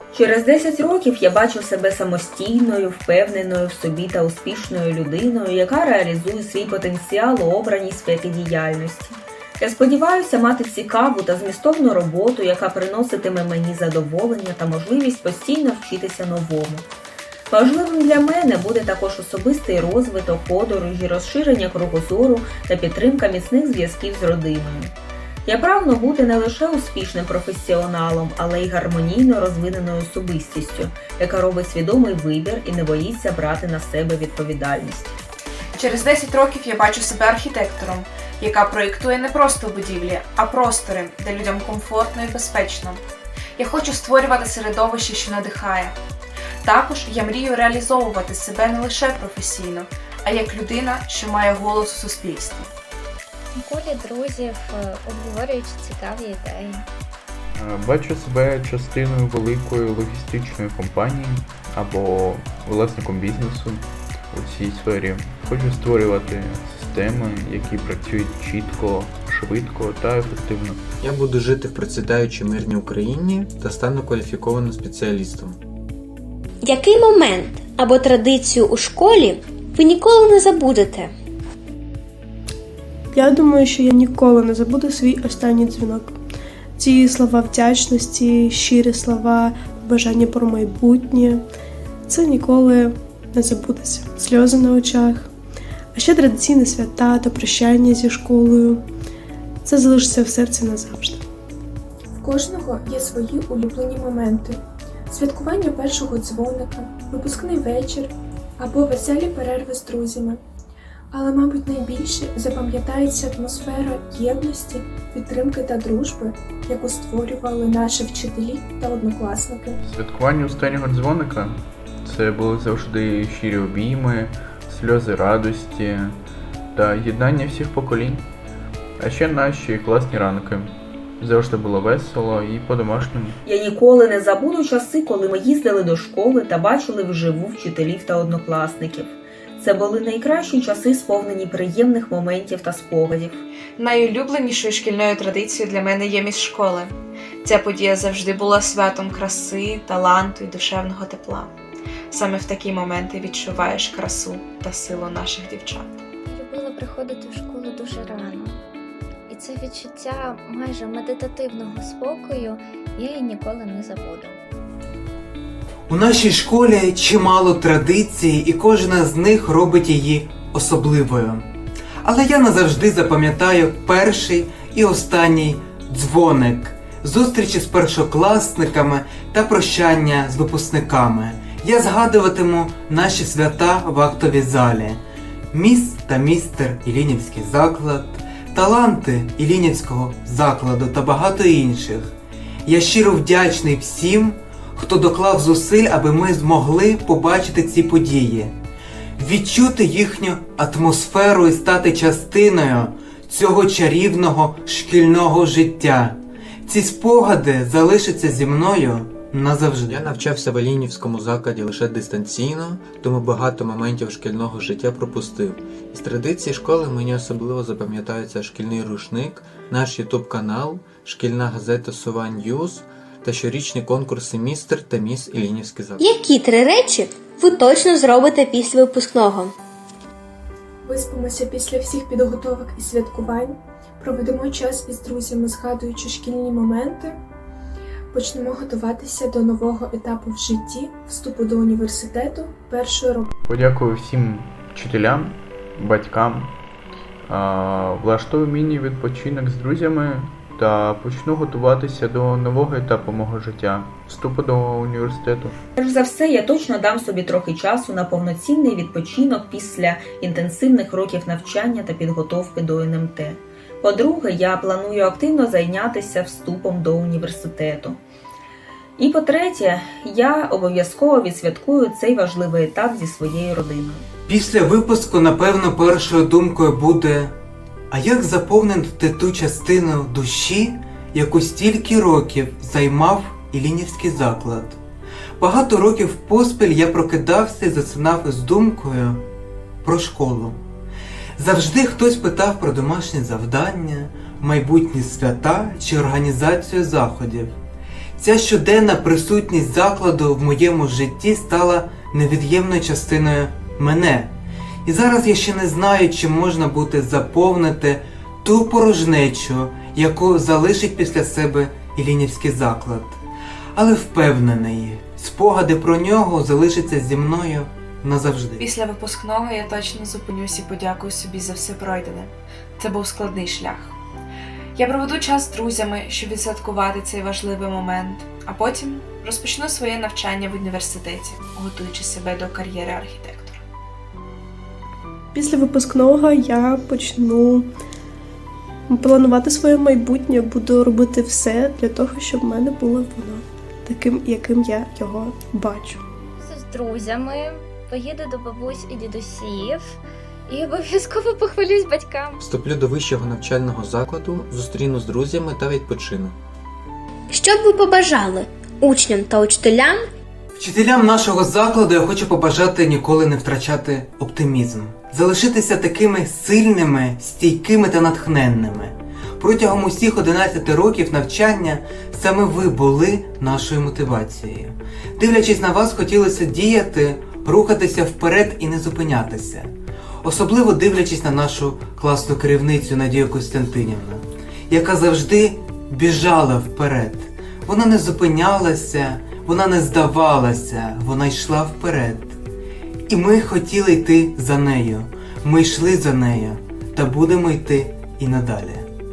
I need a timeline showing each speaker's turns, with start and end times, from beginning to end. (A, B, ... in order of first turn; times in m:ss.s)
0:00.1-0:16.9 A
0:17.5-0:24.9 A
0:25.4-0:35.2 A
0:35.8-0:43.0 B
0:43.6-0:46.0 B
0:46.6-0:52.7 B
0:53.5-0:56.8 C
0:57.5-1:10.8 D
1:11.0-1:15.6 E
1:16.6-1:21.1 F
1:23.1-1:26.2 G
1:26.8-1:31.4 G
1:32.1-1:35.3 G
1:35.9-1:38.8 G
1:39.6-1:41.2 G
1:42.1-1:50.4 H
1:51.1-1:59.8 H
1:59.8-2:06.2 D
2:06.7-2:08.2 D
2:09.0-2:13.4 D
2:13.4-2:23.4 A
2:23.8-2:31.5 B
2:32.1-2:36.0 B
2:36.2-2:38.6 C
2:39.3-2:44.4 C
2:45.9-2:51.5 I
2:52.0-3:12.1 I
3:12.6-3:18.6 I
3:19.2-3:30.1 I
3:29.9-3:46.0 E
3:46.0-3:49.5 F
3:50.8-3:57.2 H
3:58.1-4:03.3 H
4:03.4-4:06.5 D
4:07.2-4:15.6 D
4:15.8-4:28.0 A
4:29.0-4:34.0 A
4:34.3-4:37.4 I
4:37.9-4:44.8 I
4:45.4-4:49.2 I
4:49.8-4:50.6 I
4:51.4-4:57.6 I
4:58.2-5:13.2 I
5:13.7-5:18.6 I
5:18.6-5:24.0 B
5:24.8-5:33.6 B
5:35.3-5:37.7 G
5:38.9-5:46.0 G
5:46.4-5:52.4 C
5:52.4-5:56.4 E
5:57.3-6:00.1 F
6:00.6-6:32.4 I
6:33.1-6:38.9 I